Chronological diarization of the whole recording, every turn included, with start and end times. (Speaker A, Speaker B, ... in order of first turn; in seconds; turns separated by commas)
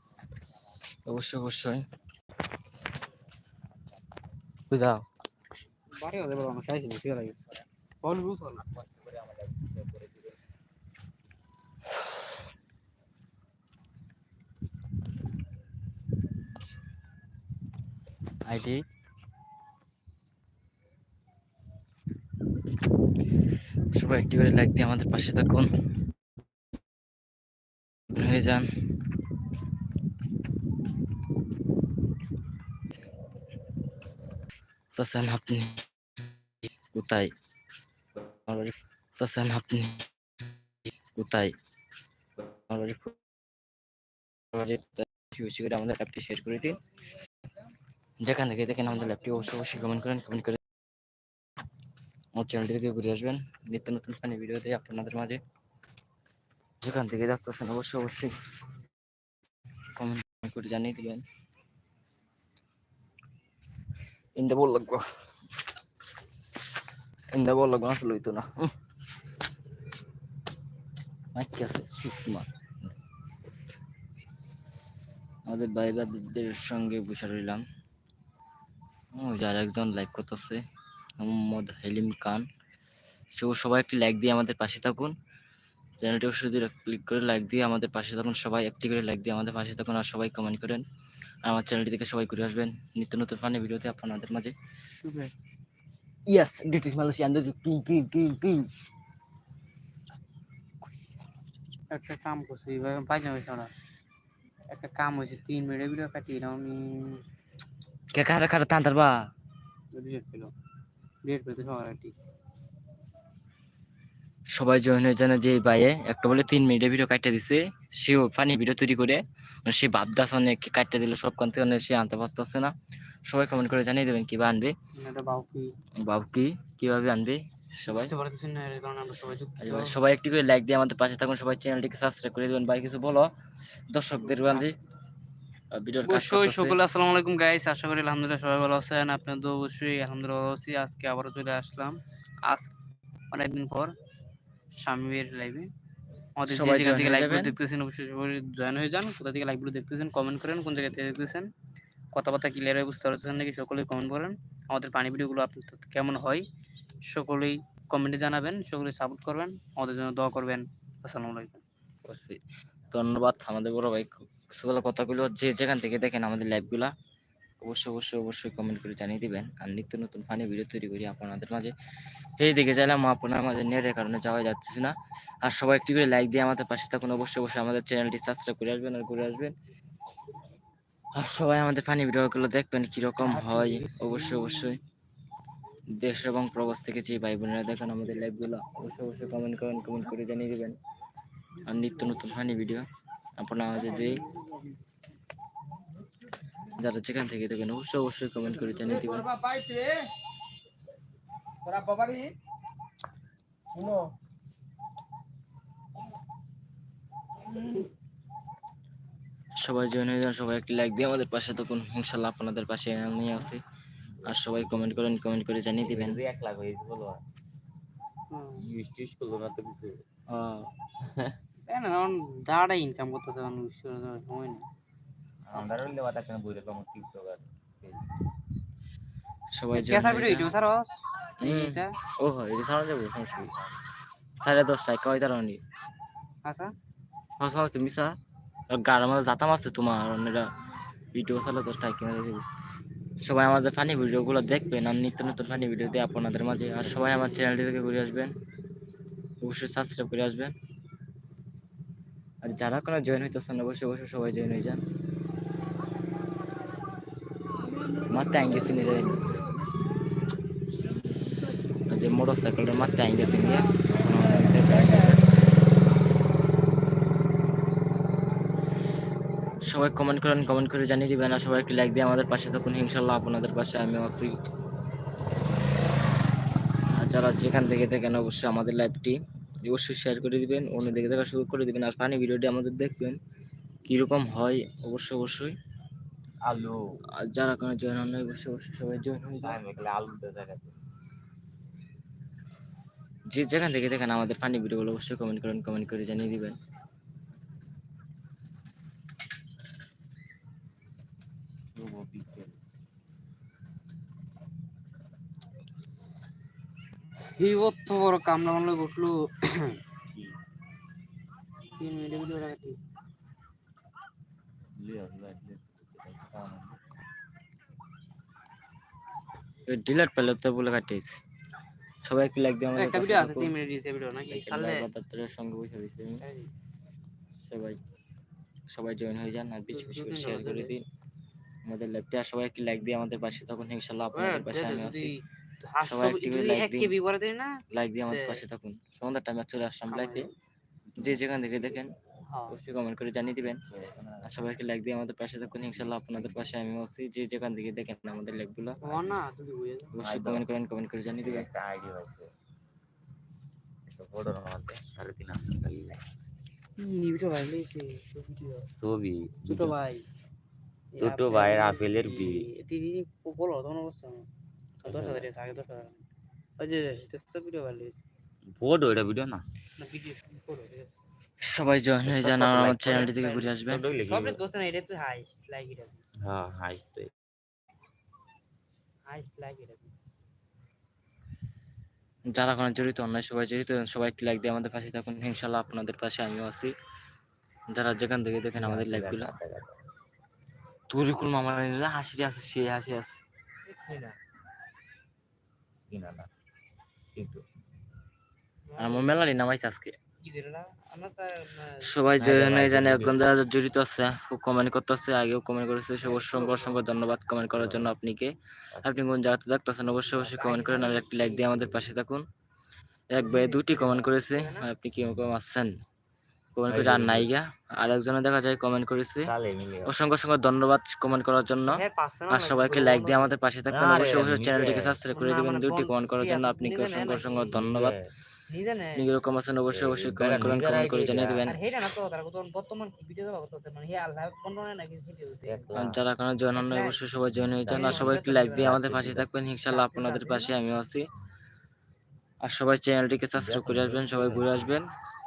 Speaker A: 1.1-1.8, Speaker A: 4.7-5.0, Speaker B: 6.0-8.7, Speaker C: 8.6-10.3, Speaker A: 18.4-18.8, Speaker A: 23.9-25.7, Speaker A: 28.1-28.7, Speaker A: 34.9-35.8, Speaker A: 36.9-37.3, Speaker A: 38.2-40.1, Speaker A: 41.1-41.5, Speaker A: 42.4-43.2, Speaker A: 44.5-46.8, Speaker A: 48.2-50.6, Speaker A: 52.3-55.4, Speaker A: 56.8-58.3, Speaker A: 60.0-61.2, Speaker A: 64.3-65.0, Speaker A: 67.3-68.7, Speaker A: 71.3-72.9, Speaker A: 75.5-77.6, Speaker A: 79.1-80.6, Speaker A: 81.2-82.4, Speaker A: 83.3-85.1, Speaker A: 86.0-90.8, Speaker A: 91.4-94.5, Speaker B: 95.0-95.3, Speaker A: 96.3-98.7, Speaker B: 101.9-103.7, Speaker B: 104.7-107.2, Speaker A: 108.1-109.3, Speaker B: 109.9-110.5, Speaker B: 111.2-112.2, Speaker A: 114.5-122.7, Speaker A: 123.2-124.7, Speaker B: 125.0-125.7, Speaker A: 126.0-128.1, Speaker B: 127.9-130.0, Speaker A: 129.6-133.3, Speaker A: 133.9-134.7, Speaker B: 134.4-134.7, Speaker A: 135.7-136.8, Speaker B: 136.0-142.7, Speaker B: 143.3-143.9, Speaker B: 144.8-145.7, Speaker B: 146.4-151.5, Speaker A: 146.5-147.6, Speaker B: 152.1-156.4, Speaker B: 157.1-161.6, Speaker A: 162.0-166.9, Speaker A: 167.6-171.7, Speaker A: 172.4-179.5, Speaker A: 181.1-184.8, Speaker B: 183.2-184.7, Speaker A: 186.0-190.8, Speaker A: 191.6-192.8, Speaker A: 193.4-194.2, Speaker A: 196.8-199.6, Speaker A: 209.6-213.6, Speaker C: 214.1-215.0, Speaker A: 214.2-216.2, Speaker C: 215.8-217.2, Speaker B: 218.3-218.7, Speaker C: 218.6-219.9, Speaker A: 220.3-220.7, Speaker C: 221.0-221.4, Speaker B: 221.7-224.7, Speaker C: 225.4-228.2, Speaker B: 225.5-225.9, Speaker A: 229.5-230.5, Speaker B: 229.7-230.9, Speaker B: 231.4-231.9, Speaker A: 231.4-233.5, Speaker A: 234.4-235.6, Speaker B: 236.4-236.7, Speaker A: 237.4-238.2, Speaker A: 238.7-240.5, Speaker A: 241.1-242.4, Speaker A: 243.2-248.3, Speaker A: 249.4-250.5, Speaker A: 252.4-254.8, Speaker A: 258.1-259.4, Speaker A: 261.9-265.3, Speaker A: 269.6-274.3, Speaker A: 277.0-283.2, Speaker A: 283.9-285.5, Speaker C: 286.4-286.8, Speaker A: 287.2-289.6, Speaker C: 289.4-290.7, Speaker A: 293.3-296.5, Speaker C: 301.8-302.6, Speaker B: 307.4-309.8, Speaker B: 311.7-312.8, Speaker C: 314.8-316.8, Speaker A: 319.7-321.2, Speaker A: 322.0-323.5, Speaker B: 322.7-324.9, Speaker A: 324.2-326.2, Speaker B: 326.2-326.5, Speaker A: 327.4-327.8, Speaker A: 328.7-330.8, Speaker B: 329.7-330.7, Speaker A: 331.7-335.1, Speaker B: 334.1-338.4, Speaker A: 335.8-336.9, Speaker A: 337.7-340.3, Speaker B: 339.9-340.3, Speaker C: 340.9-341.2, Speaker A: 341.0-341.9, Speaker B: 342.3-342.6, Speaker A: 342.5-343.6, Speaker C: 343.7-344.5, Speaker A: 344.2-349.1, Speaker C: 346.1-346.4, Speaker B: 348.8-349.9, Speaker A: 349.9-351.5, Speaker C: 350.0-350.5, Speaker C: 351.2-352.3, Speaker C: 353.9-356.1, Speaker B: 356.8-358.7, Speaker C: 358.8-359.8, Speaker B: 359.4-360.1, Speaker B: 360.9-364.3, Speaker C: 361.0-362.5, Speaker B: 364.8-366.0, Speaker C: 364.8-365.3, Speaker B: 366.6-368.0, Speaker C: 368.5-369.4, Speaker B: 369.8-371.0, Speaker A: 371.4-373.8, Speaker C: 372.0-374.4, Speaker B: 373.0-376.0, Speaker C: 376.2-377.1, Speaker B: 379.1-379.9, Speaker A: 382.3-386.7, Speaker A: 387.7-389.3, Speaker C: 388.5-389.8, Speaker A: 390.9-393.2, Speaker B: 393.6-394.1, Speaker C: 395.9-396.3, Speaker C: 397.1-397.4, Speaker B: 398.7-399.3, Speaker A: 398.8-400.0, Speaker B: 400.2-401.9, Speaker A: 401.8-412.2, Speaker C: 402.2-403.2, Speaker B: 406.0-406.8, Speaker C: 407.5-407.9, Speaker C: 408.7-409.1, Speaker B: 410.1-411.7, Speaker A: 413.1-415.7, Speaker B: 413.1-414.7, Speaker A: 416.6-419.3, Speaker C: 416.7-417.3, Speaker C: 419.2-419.9, Speaker A: 419.9-427.9, Speaker B: 421.7-423.4, Speaker C: 423.7-425.0, Speaker B: 425.1-427.5, Speaker C: 427.5-428.1, Speaker B: 428.5-429.0, Speaker A: 428.9-431.6, Speaker C: 429.7-431.6, Speaker B: 431.4-435.8, Speaker C: 435.5-436.0, Speaker A: 435.8-441.0, Speaker B: 436.5-437.0, Speaker C: 437.4-439.3, Speaker B: 437.7-438.8, Speaker B: 439.7-440.5, Speaker A: 442.4-444.9, Speaker C: 443.4-444.8